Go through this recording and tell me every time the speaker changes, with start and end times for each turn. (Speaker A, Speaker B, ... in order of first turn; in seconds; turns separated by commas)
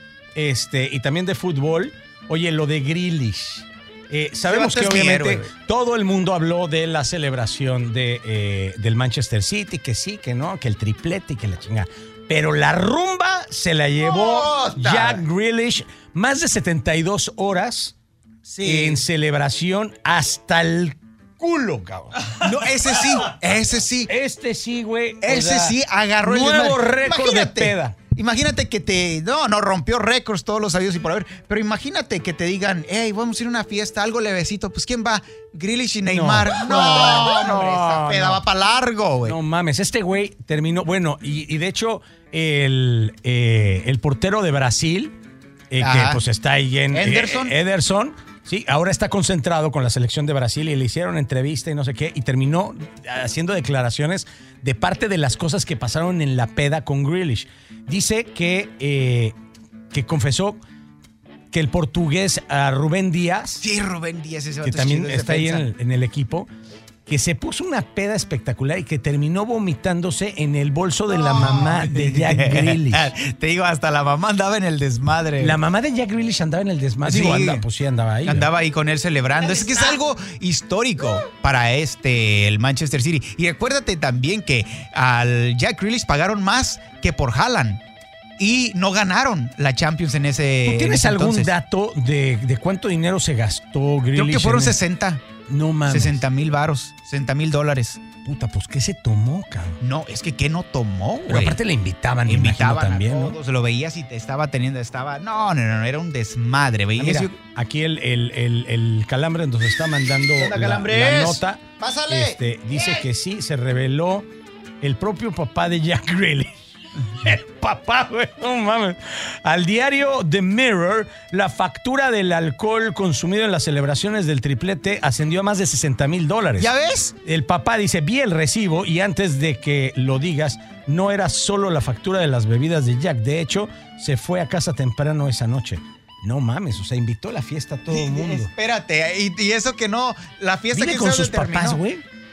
Speaker A: 0.3-17.9, Speaker B: 4.5-5.5, Speaker B: 14.0-15.2, Speaker A: 18.4-22.4, Speaker B: 18.6-19.0, Speaker B: 22.4-24.1, Speaker A: 24.1-27.9, Speaker B: 25.2-39.4, Speaker A: 36.1-38.4, Speaker A: 39.2-45.1, Speaker A: 45.7-59.4, Speaker B: 45.8-46.2, Speaker B: 46.9-47.5, Speaker A: 59.9-60.6, Speaker A: 61.5-63.6, Speaker B: 63.6-65.7, Speaker A: 64.6-66.5, Speaker A: 67.1-73.1, Speaker B: 71.1-75.6, Speaker A: 75.4-78.5, Speaker B: 77.0-77.7, Speaker B: 78.2-87.8, Speaker B: 88.4-91.5, Speaker A: 90.7-94.8, Speaker B: 94.1-95.2, Speaker A: 95.5-96.2, Speaker B: 95.9-98.0, Speaker A: 98.2-99.8, Speaker B: 99.8-101.6, Speaker A: 101.2-103.3, Speaker B: 102.2-107.3, Speaker A: 107.0-114.3, Speaker B: 110.4-113.0, Speaker A: 114.8-126.7, Speaker B: 126.6-127.1, Speaker A: 127.2-138.5, Speaker B: 137.9-141.8, Speaker A: 140.7-142.0